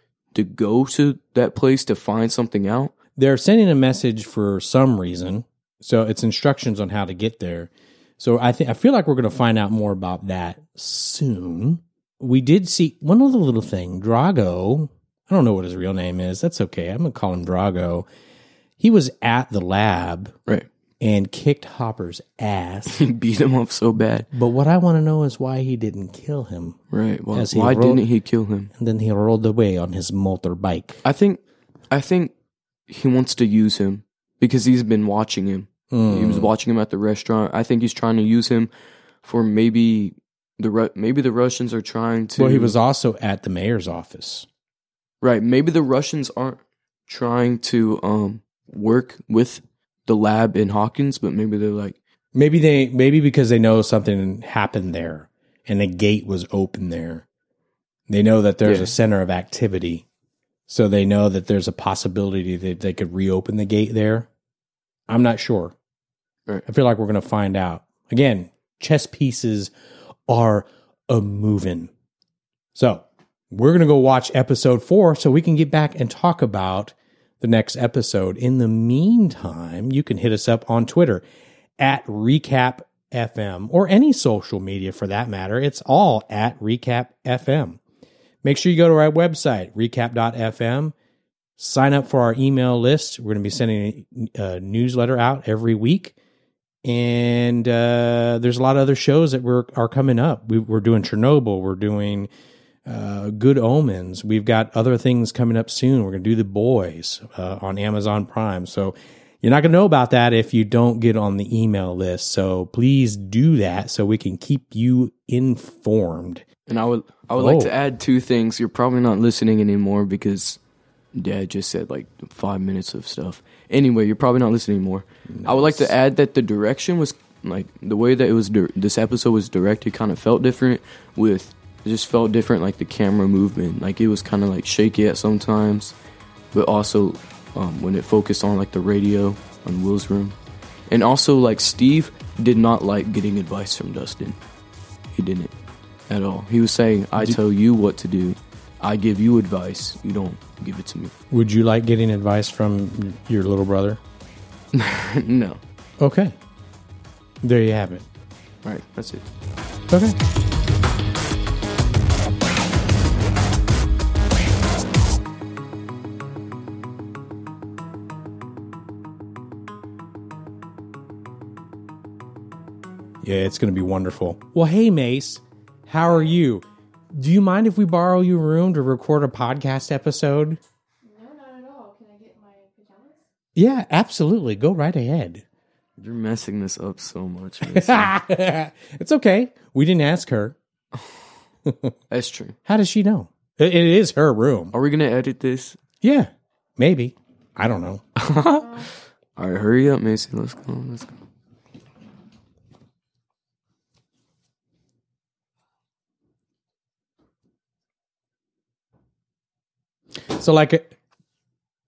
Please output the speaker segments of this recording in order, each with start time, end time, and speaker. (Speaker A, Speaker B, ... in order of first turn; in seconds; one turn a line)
Speaker A: 0.3-2.9
Speaker B: 3.2-18.1
Speaker B: 18.8-20.4
Speaker B: 21.0-23.0
Speaker A: 22.9-24.3
Speaker B: 24.3-26.8
Speaker A: 26.9-28.7
Speaker B: 27.3-28.0
Speaker B: 28.7-31.0
Speaker A: 31.0-32.3
Speaker A: 32.9-38.7
Speaker B: 35.9-36.5
Speaker A: 39.2-42.7
Speaker B: 42.4-44.5
Speaker A: 45.2-52.0
Speaker B: 52.3-57.2
Speaker B: 58.1-60.0
Speaker A: 58.6-58.9
Speaker B: 60.7-64.3
Speaker B: 65.1-65.7
Speaker B: 66.7-69.7
Speaker B: 70.3-71.9
Speaker B: 72.7-81.2
Speaker B: 81.8-87.8
Speaker B: 88.4-90.9
Speaker B: 91.6-96.1
Speaker B: 96.8-102.3
Speaker B: 102.8-116.4
Speaker A: 116.7-120.6
Speaker B: 117.3-117.7
Speaker A: 121.1-135.9
Speaker B: 125.3-125.9
Speaker A: 136.5-140.3
Speaker A: 140.9-144.4
Speaker A: 145.1-145.5
Speaker A: 146.1-151.1
Speaker B: 151.3-154.0
Speaker A: 154.7-155.6
Speaker B: 156.0-156.3
Speaker B: 157.4-158.1
Speaker A: 158.6-159.2
Speaker B: 159.9-160.2
Speaker B: 173.2-180.6
Speaker C: 181.0-183.2
Speaker B: 183.5-185.4
Speaker A: 186.0-188.1
Speaker B: 187.6-190.6
Speaker B: 191.7-191.9
Speaker A: 192.1-192.6
Speaker B: 192.7-194.7
Speaker A: 194.7-195.8
Speaker B: 196.0-198.0
Speaker A: 198.2-201.2
Speaker B: 210.3-211.0